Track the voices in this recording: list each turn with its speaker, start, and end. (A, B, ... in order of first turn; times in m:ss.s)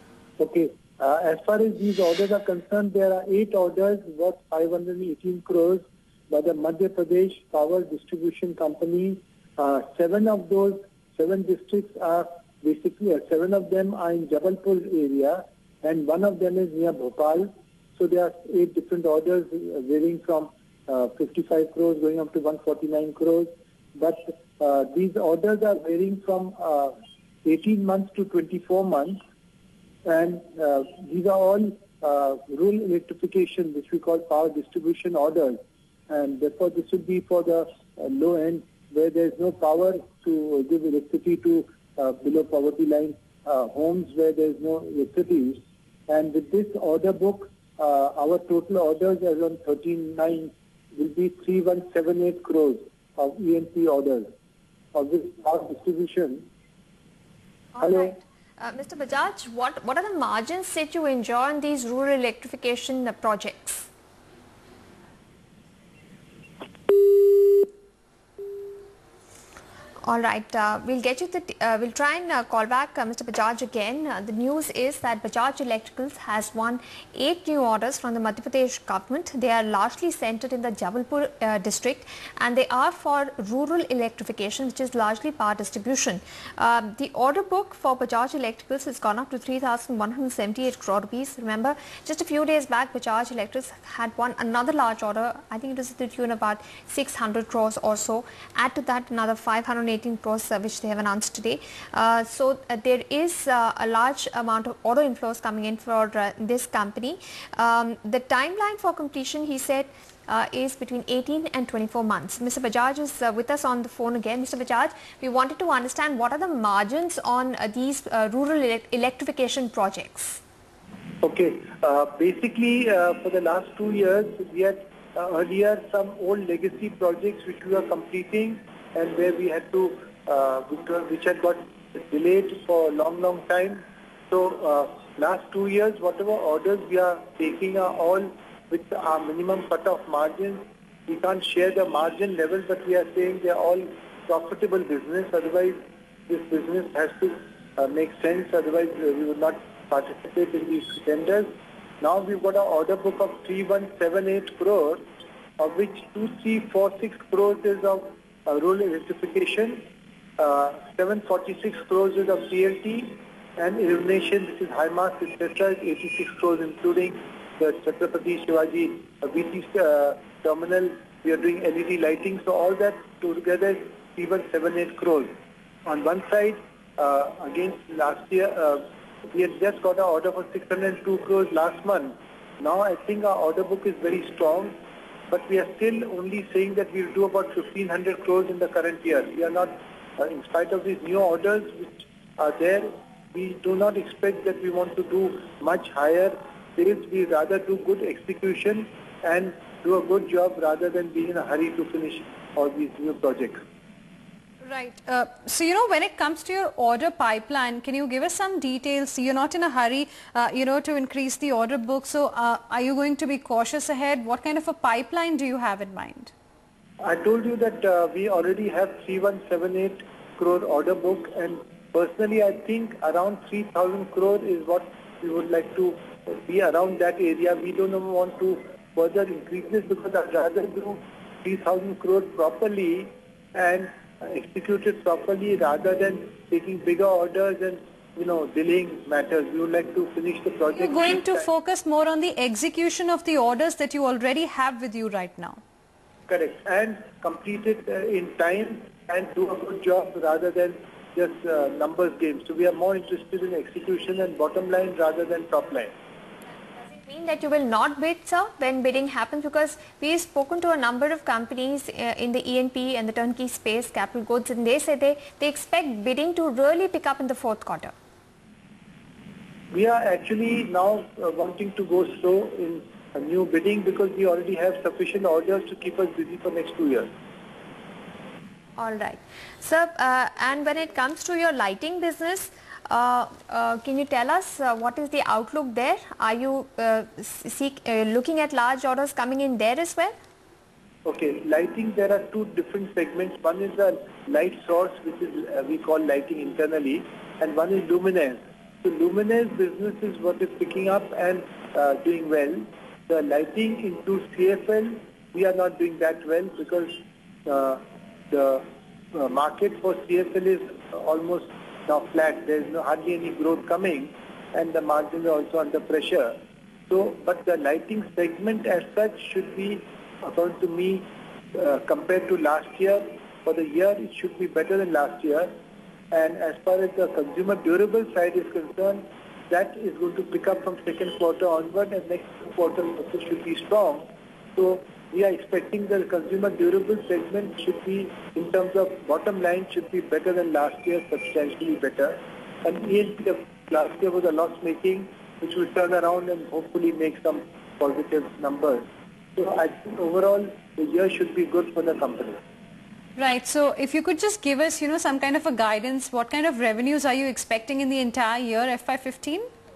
0:00.4-0:29.2 A
0:30.0-0:54.3 A
0:54.9-0:56.5 A
0:57.7-1:03.9 B
0:57.8-0:58.2 A
1:10.0-2:00.4 B
2:01.2-2:31.5 A
2:32.0-2:35.0 A
2:35.6-2:39.8 A
2:40.4-2:55.3 A
2:55.9-3:04.8 A
3:05.3-3:23.6 A
3:24.6-3:36.3 C
3:37.0-4:01.5 A
4:00.7-4:05.6 C
4:06.3-4:15.9 A
4:16.7-4:27.9 B
4:29.7-4:37.1 A
4:38.8-4:50.1 B
4:51.0-5:07.0 A
5:07.5-5:16.4 A
5:16.9-5:25.5 A
5:26.1-5:48.8 A
5:49.4-5:52.4 A
5:53.2-5:59.5 C